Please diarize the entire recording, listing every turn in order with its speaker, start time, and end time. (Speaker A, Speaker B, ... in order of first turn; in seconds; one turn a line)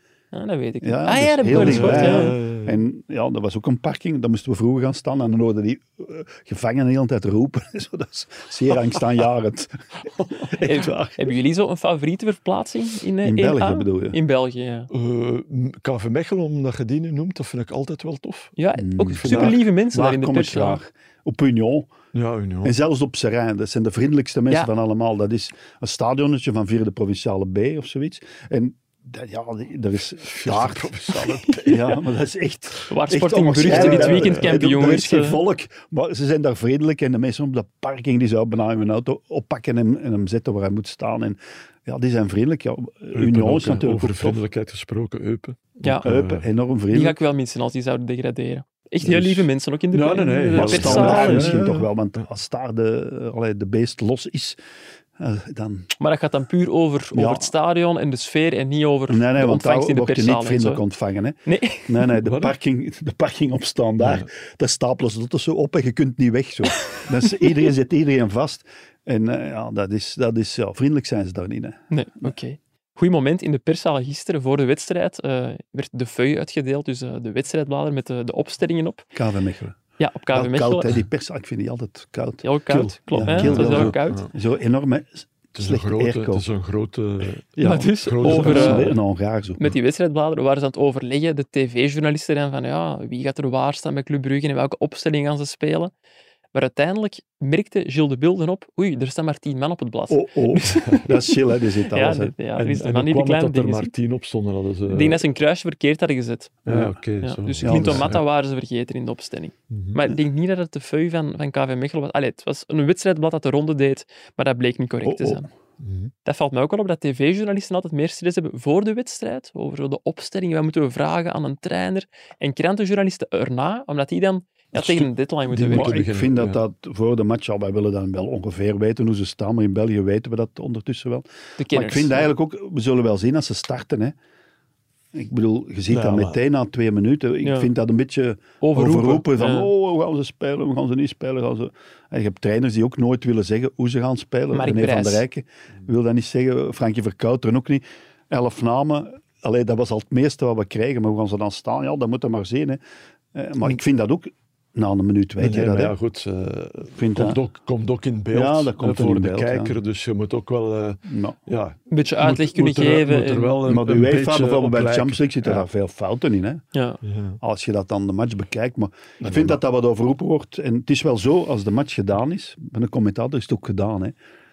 Speaker A: 0.3-2.3
Speaker B: 0.8-11.3
Speaker C: 1.5-2.8
Speaker A: 10.6-14.9
Speaker B: 13.2-14.2
Speaker C: 14.9-18.6
Speaker A: 18.6-20.8
Speaker B: 18.8-21.9
Speaker C: 19.2-19.6
Speaker C: 22.1-22.8
Speaker B: 22.6-44.4
Speaker C: 30.2-32.0
Speaker A: 31.5-31.8
Speaker A: 32.9-35.4
Speaker C: 33.6-34.6
Speaker C: 43.1-46.5
Speaker B: 46.0-47.2
Speaker A: 46.9-51.6
Speaker C: 49.0-51.9
Speaker B: 50.5-54.6
Speaker B: 55.2-55.9
Speaker A: 56.0-60.8
Speaker B: 57.1-57.5
Speaker B: 59.1-72.3
Speaker A: 61.5-62.1
Speaker C: 62.2-62.5
Speaker C: 64.0-64.3
Speaker A: 71.9-79.0
Speaker B: 79.1-79.8
Speaker A: 80.0-81.0
Speaker B: 80.3-82.4
Speaker A: 82.4-84.2
Speaker C: 82.7-84.3
Speaker B: 83.1-86.5
Speaker C: 85.5-89.0
Speaker B: 87.6-89.6
Speaker A: 87.6-88.9
Speaker A: 89.6-95.9
Speaker A: 96.5-101.2
Speaker B: 100.1-102.3
Speaker A: 101.9-103.9
Speaker C: 102.6-105.2
Speaker A: 104.9-106.7
Speaker C: 106.7-108.2
Speaker B: 106.7-106.9
Speaker A: 107.2-115.5
Speaker B: 107.6-108.1
Speaker C: 109.7-110.0
Speaker B: 115.0-115.5
Speaker C: 115.8-116.1
Speaker A: 116.2-126.0
Speaker C: 124.8-126.6
Speaker B: 125.7-134.2
Speaker A: 131.6-132.3
Speaker B: 135.1-152.8
Speaker C: 135.9-136.4
Speaker A: 137.4-137.7
Speaker A: 138.6-139.7
Speaker A: 144.5-145.2
Speaker B: 153.3-156.0
Speaker C: 155.4-165.7
Speaker B: 156.9-157.4
Speaker B: 158.3-159.8
Speaker B: 161.1-161.4
Speaker A: 161.9-163.6
Speaker B: 163.6-166.6
Speaker A: 166.7-167.0
Speaker C: 167.0-167.4
Speaker B: 167.4-174.2
Speaker C: 169.2-169.6